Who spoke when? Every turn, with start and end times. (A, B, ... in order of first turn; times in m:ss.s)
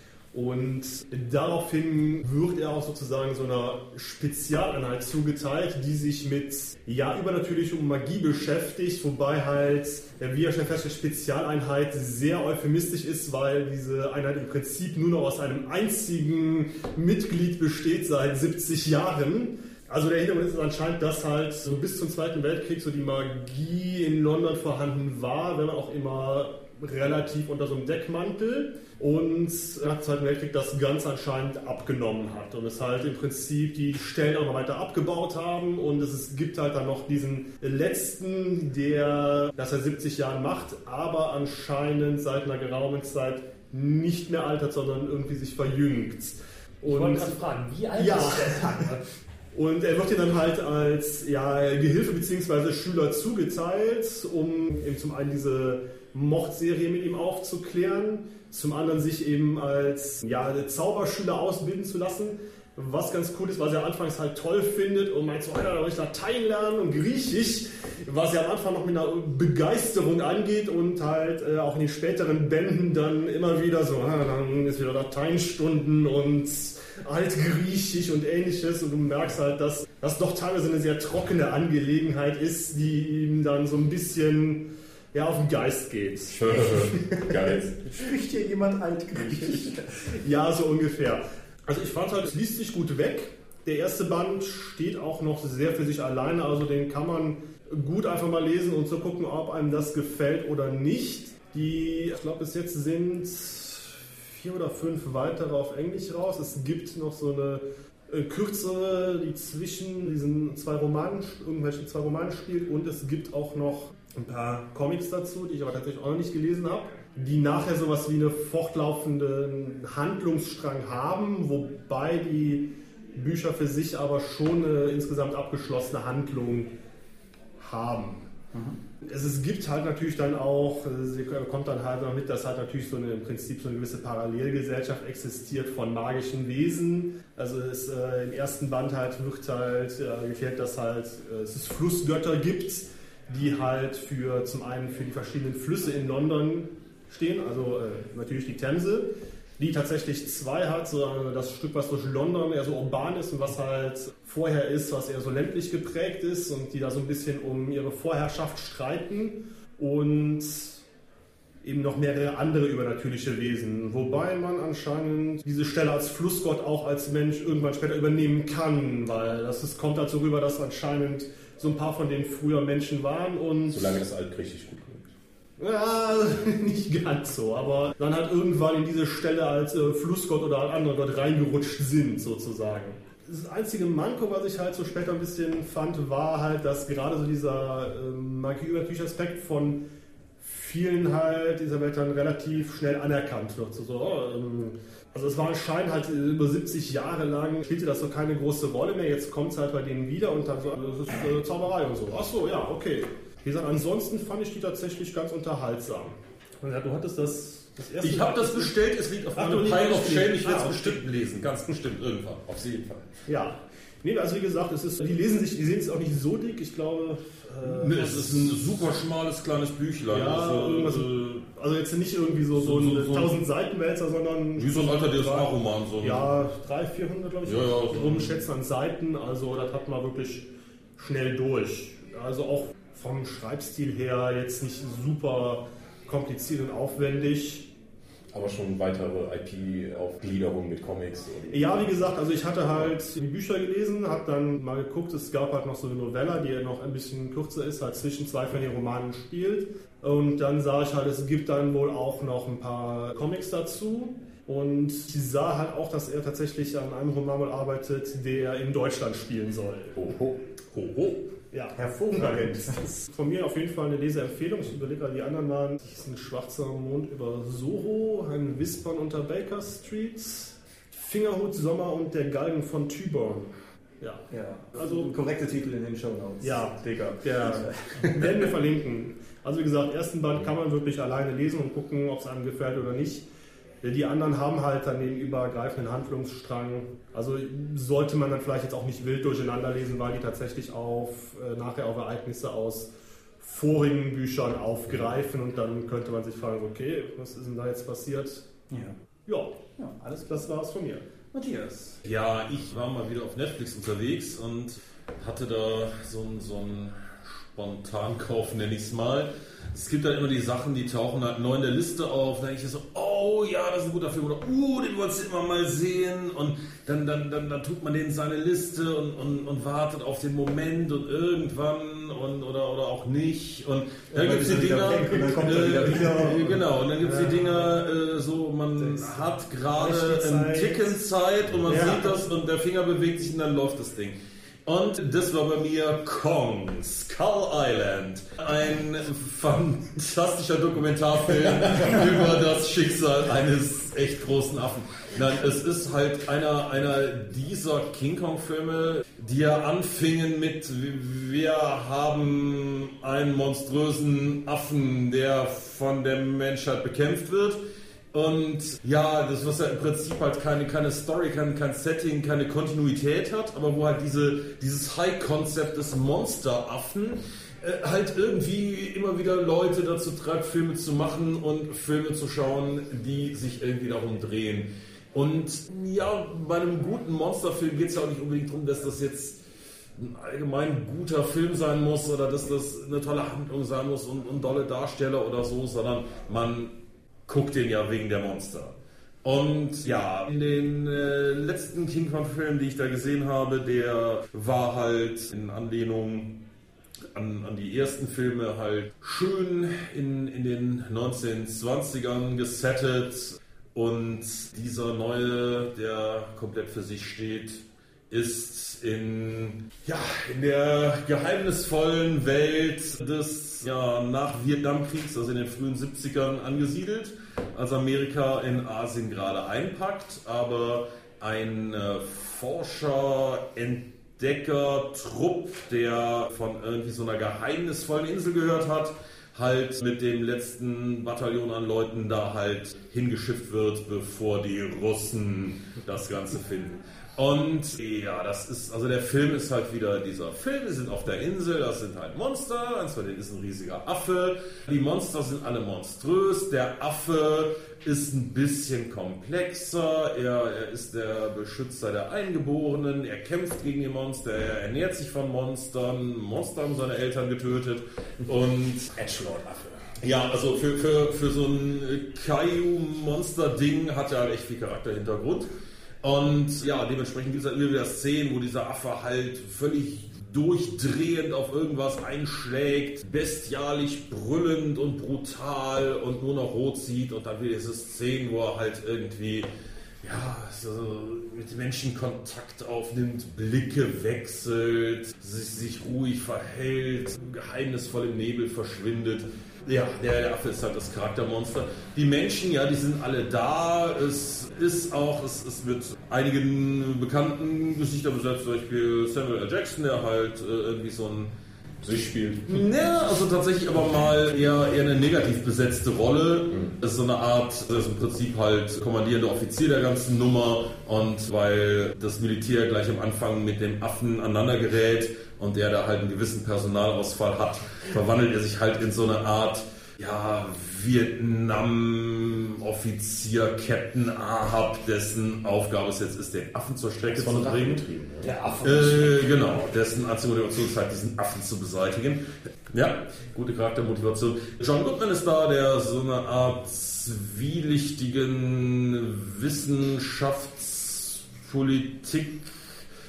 0:00.3-0:47.4 A
0:46.8-0:49.0 B
0:47.9-0:48.9 A
0:49.5-1:26.9 A
1:26.3-1:28.0 C
1:27.9-1:29.9 D
1:29.1-2:06.7 A
2:07.6-2:08.3 A
2:08.5-2:08.8 D
2:09.0-2:40.8 A
2:41.6-2:53.8 A
2:53.7-2:55.1 C
2:55.6-3:09.8 A
3:10.4-3:28.7 A
3:28.0-3:32.5 E
3:29.3-3:31.0 A
3:32.5-3:33.1 C
3:33.3-3:38.6 A
3:37.6-3:41.3 E
3:40.1-3:45.5 A
3:42.5-3:43.4 E
3:44.6-3:46.2 E
3:46.0-3:57.7 A
3:47.4-3:48.3 E
3:58.3-4:01.7 C
4:01.5-4:20.0 A
4:20.0-4:20.3 C
4:20.7-4:21.2 E
4:21.5-4:35.1 A
4:21.8-4:22.8 D
4:34.3-4:38.4 D
4:36.4-4:43.2 A
4:43.8-4:58.4 A
4:58.7-4:58.9 D
4:59.3-4:59.5 A
4:59.8-5:00.5 D
5:00.2-5:01.0 A
5:01.3-5:02.0 D
5:02.0-5:34.1 E
5:24.1-5:26.6 D
5:25.9-5:27.8 A
5:28.8-5:30.9 A
5:31.6-5:32.2 A
5:34.6-5:57.6 E
5:58.1-6:19.4 E
6:20.0-6:26.7 E
6:27.3-6:36.4 E
6:37.1-7:38.9 E
7:38.9-7:40.0 C
7:40.0-7:45.5 E
7:46.0-7:59.5 E
8:00.0-8:21.3 E
8:21.8-8:22.6 C
8:22.5-8:47.8 E
8:47.1-8:48.3 C
8:48.2-8:49.7 B
8:48.6-9:02.6 E